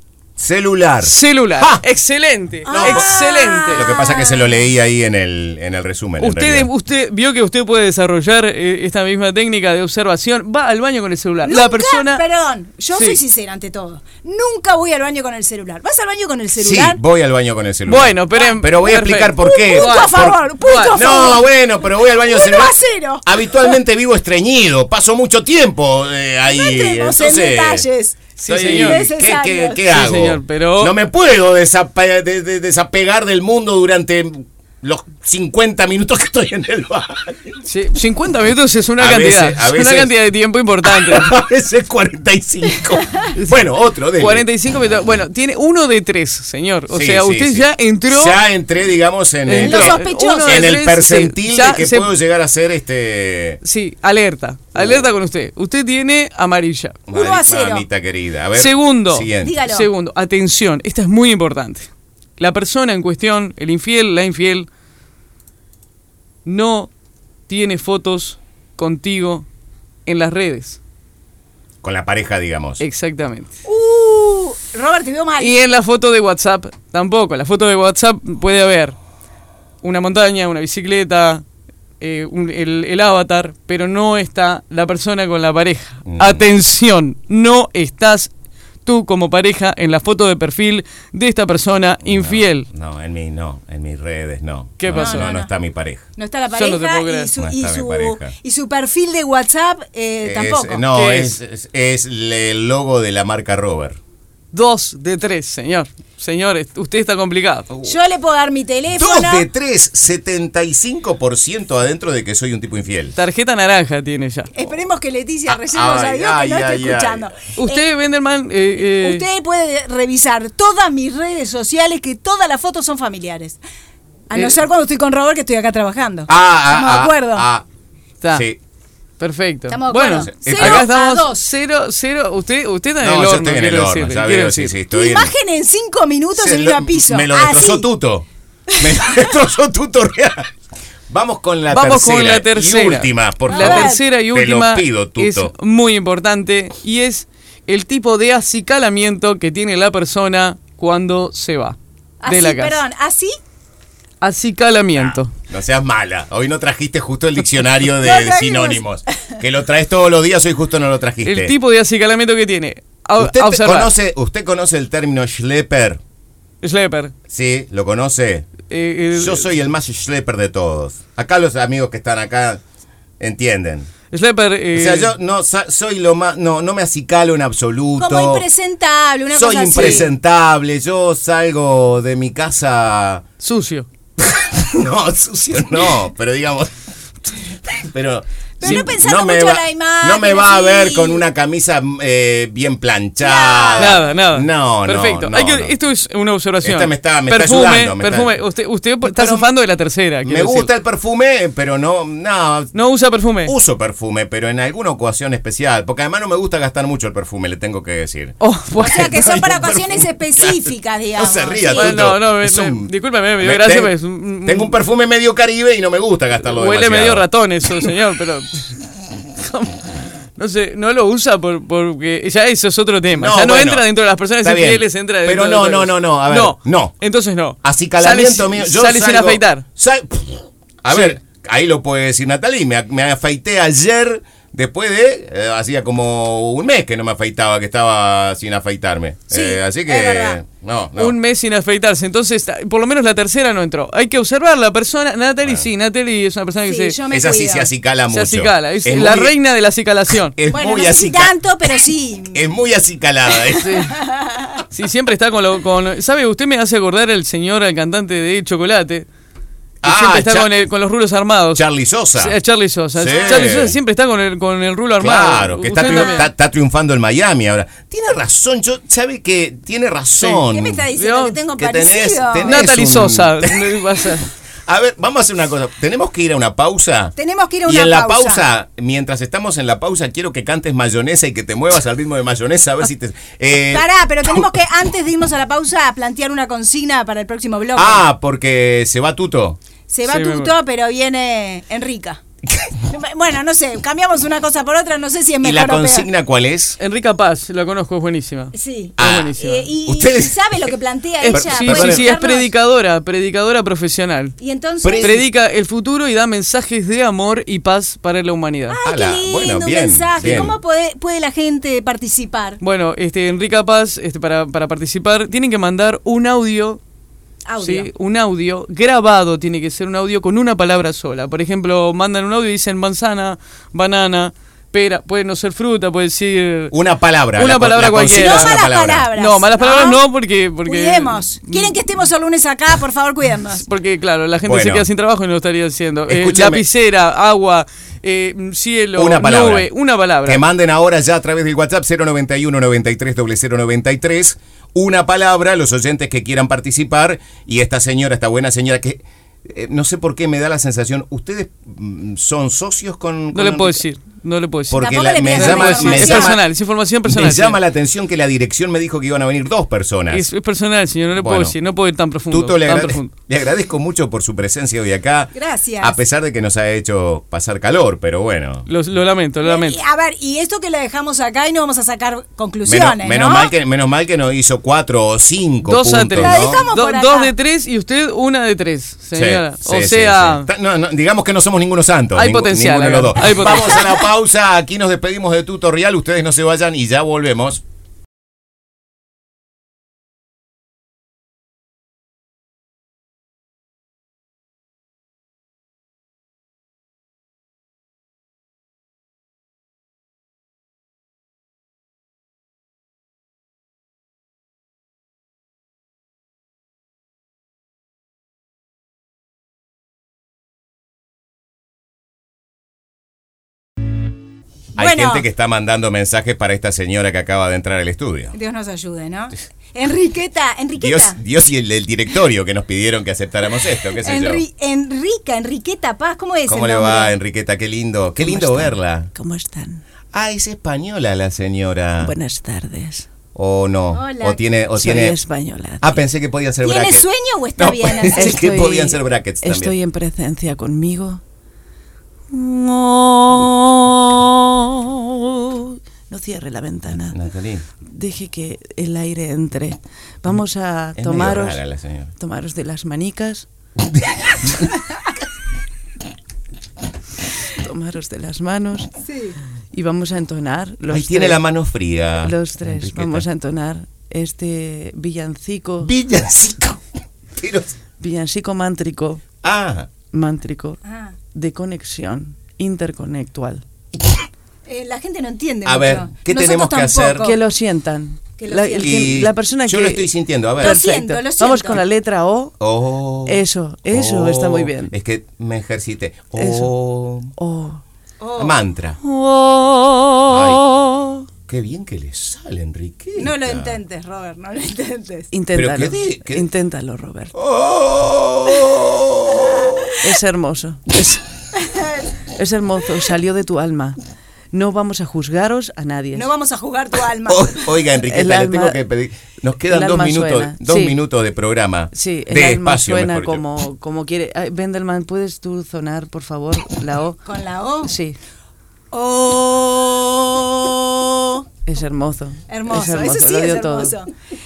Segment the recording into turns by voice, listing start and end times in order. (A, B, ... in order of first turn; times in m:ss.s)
0:00.4-0:01.8 A
0:01.0-0:03.9 B
0:02.6-0:04.6 C
0:02.7-0:03.1 A
0:03.7-0:06.7 A
0:06.2-0:12.2 B
0:11.4-0:17.0 C
0:16.6-0:20.4 A
0:17.8-0:21.3 B
0:19.4-0:21.4 C
0:20.9-0:27.8 A
0:22.1-0:23.8 C
0:26.5-0:29.8 C
0:28.4-0:29.0 B
0:28.4-0:37.6 A
0:29.9-0:30.9 B
0:37.6-0:41.3 B
0:39.0-0:40.1 A
0:40.8-0:44.5 A
0:43.4-0:48.4 B
0:46.9-0:53.6 A
0:49.4-0:52.1 B
0:49.6-0:50.8 C
0:53.6-0:57.0 B
0:54.7-0:55.1 A
0:57.1-0:59.5 A
0:57.1-0:57.8 C
0:58.5-1:04.7 B
0:59.4-0:59.9 C
1:06.4-1:06.9 B
1:07.5-1:09.4 B
1:10.0-1:10.8 B
1:11.8-1:12.8 A
1:12.8-1:13.6 B
1:13.6-1:15.5 C
1:15.4-1:19.0 B
1:19.8-1:21.4 B
1:22.0-1:28.3 B
1:26.0-1:26.5 A
1:28.8-1:32.7 B
1:32.0-1:36.0 A
1:34.8-1:35.3 B
1:34.9-1:35.5 C
1:36.2-1:40.8 C
1:36.5-1:37.3 B
1:37.4-1:38.3 A
1:40.2-1:44.0 A
1:40.9-1:41.4 B
1:44.5-1:47.7 B
1:47.7-1:47.9 A
1:47.8-1:49.5 C
1:48.9-1:53.2 A
1:53.2-1:54.5 B
1:54.5-1:57.8 C
1:55.4-1:57.3 A
1:57.6-1:59.2 B
1:58.7-2:03.6 C
2:04.3-2:07.5 C
2:06.3-2:07.6 A
2:08.2-2:08.5 B
2:08.3-2:08.6 A
2:09.2-2:14.8 B
2:09.7-2:11.4 C
2:10.1-2:10.9 A
2:13.0-2:15.3 A
2:14.9-2:17.9 C
2:16.4-2:18.2 A
2:18.7-2:19.3 C
2:18.8-2:20.5 A
2:21.1-2:25.5 A
2:21.7-2:31.8 B
2:23.5-2:24.0 C
2:32.2-2:33.3 C
2:32.3-2:32.8 B
2:34.2-2:35.3 B
2:34.9-2:41.5 A
2:38.0-2:38.8 C
2:41.2-2:43.9 B
2:43.2-2:46.0 A
2:46.6-2:47.1 B
2:47.3-2:48.5 A
2:48.7-2:49.5 B
2:49.1-2:52.6 A
2:53.2-2:53.9 A
2:54.1-2:55.1 B
2:54.7-2:58.4 A
2:58.0-3:00.1 C
2:59.3-3:03.2 A
2:59.7-3:00.0 B
3:03.4-3:03.9 B
3:04.2-3:06.7 A
3:07.5-3:15.7 A
3:08.6-3:11.2 C
3:08.6-3:09.0 B
3:13.2-3:14.0 C
3:13.8-3:20.7 B
3:16.6-3:18.4 A
3:19.0-3:19.5 A
3:20.2-3:22.7 A
3:22.7-3:23.5 B
3:23.4-3:37.3 A
3:28.4-3:29.2 B
3:28.8-3:32.1 C
3:31.6-3:34.8 B
3:36.4-3:38.8 B
3:39.4-3:49.6 B
3:43.1-3:46.9 A
3:47.6-4:01.2 A
3:50.9-3:51.2 B
3:59.3-4:00.4 C
4:00.9-4:07.0 B
4:06.6-4:07.7 C
4:07.1-4:09.4 A
4:08.1-4:10.4 B
4:10.3-4:11.4 A
4:10.5-4:12.4 C
4:12.3-4:13.9 A
4:13.6-4:14.0 B
4:13.8-4:14.6 C
4:14.6-4:19.0 B
4:19.8-4:20.5 A
4:19.8-4:26.3 B
4:21.5-4:22.4 A
4:23.0-4:23.8 A
4:23.0-4:23.5 C
4:25.0-4:30.9 A
4:25.8-4:26.3 C
4:30.2-4:30.4 B
4:30.4-4:32.7 C
4:31.0-4:31.4 B
4:31.6-4:33.7 A
4:32.4-4:34.3 B
4:34.7-4:37.1 A
4:37.2-4:38.4 C
4:37.6-4:44.4 A
4:43.7-4:48.0 C
4:47.8-4:49.6 A
4:49.9-4:52.2 C
4:50.0-4:50.5 B
4:52.8-4:56.1 C
4:55.4-4:56.8 A
4:56.8-4:59.8 B
4:58.5-5:02.5 C
4:59.0-4:59.3 A
4:59.8-5:00.4 A
5:01.2-5:04.3 B
5:01.3-5:02.1 A
5:04.4-5:05.2 C
5:04.8-5:05.2 A
5:05.0-5:08.8 B
5:08.7-5:12.6 C
5:08.8-5:10.5 A
5:10.2-5:10.5 B
5:12.6-5:16.8 B
5:17.4-5:17.9 C
5:17.6-5:26.7 B
5:26.7-5:29.1 A
5:27.3-5:28.6 B
5:28.1-5:30.0 C
5:29.1-5:31.8 B
5:30.6-5:33.6 C
5:33.5-5:40.4 B
5:34.4-5:34.9 A
5:36.1-5:36.6 A
5:38.9-5:39.7 A
5:40.2-5:53.8 A
5:53.3-5:57.6 B
5:54.7-5:56.4 A
5:54.8-5:56.4 C
5:57.0-6:00.3 A
6:00.1-6:03.1 B
6:01.1-6:01.5 A
6:02.3-6:08.7 A
6:05.3-6:06.0 C
6:08.7-6:09.8 B
6:09.4-6:13.5 C
6:12.6-6:16.6 A
6:15.6-6:20.5 B
6:16.2-6:17.3 C
6:19.1-6:27.6 A
6:22.1-6:23.8 B
6:54.8-6:58.3 A
6:54.8-6:55.2 C
6:58.3-7:01.2 C
7:00.8-7:04.4 A
7:04.0-7:07.2 C
7:06.5-7:09.1 A
7:08.2-7:09.8 D
7:10.1-7:12.1 A
7:12.0-7:13.1 D
7:13.3-7:15.2 A
7:13.9-7:14.4 C
7:14.8-7:16.0 D
7:15.8-7:17.0 A
7:16.6-7:18.4 C
7:17.6-7:19.8 A
7:18.1-7:21.2 D
7:22.3-7:27.2 D
7:26.9-7:27.7 A
7:27.8-7:31.6 D
7:31.0-7:32.1 A
7:32.2-7:33.4 D
7:34.1-7:34.7 A
7:37.6-7:38.9 D
7:39.0-7:39.4 C
7:39.7-7:41.4 D
7:40.9-7:43.2 A
7:42.2-7:45.9 D
7:45.8-7:46.8 A
7:47.4-7:47.7 A
7:48.0-7:49.2 D
7:49.4-7:49.9 A
7:50.1-7:50.8 D
7:50.8-7:51.2 C
7:51.3-7:53.6 D
7:54.7-7:57.4 C
7:55.6-7:57.3 A
7:57.2-8:02.5 D
7:58.4-7:59.2 C
7:58.8-8:00.8 A
8:00.6-8:01.8 C
8:02.6-8:07.3 A
8:03.2-8:04.9 D
8:06.4-8:06.7 D
8:07.4-8:07.8 D
8:08.2-8:08.6 C
8:08.4-8:09.0 A
8:09.0-8:11.2 D
8:10.3-8:10.7 A
8:11.5-8:13.8 A
8:13.2-8:15.3 C
8:15.3-8:17.3 D
8:15.5-8:16.5 A
8:17.3-8:20.0 A
8:20.0-8:21.2 D
8:21.6-8:22.1 C
8:22.4-8:24.0 D
8:24.5-8:26.3 D
8:26.1-8:27.6 C
8:27.2-8:33.4 A
8:28.0-8:28.8 D
8:29.7-8:31.0 D
8:31.9-8:37.2 D
8:37.2-8:37.9 C
8:37.8-8:38.2 D
8:38.9-8:41.4 C
8:41.6-8:44.0 D
8:42.5-8:44.1 C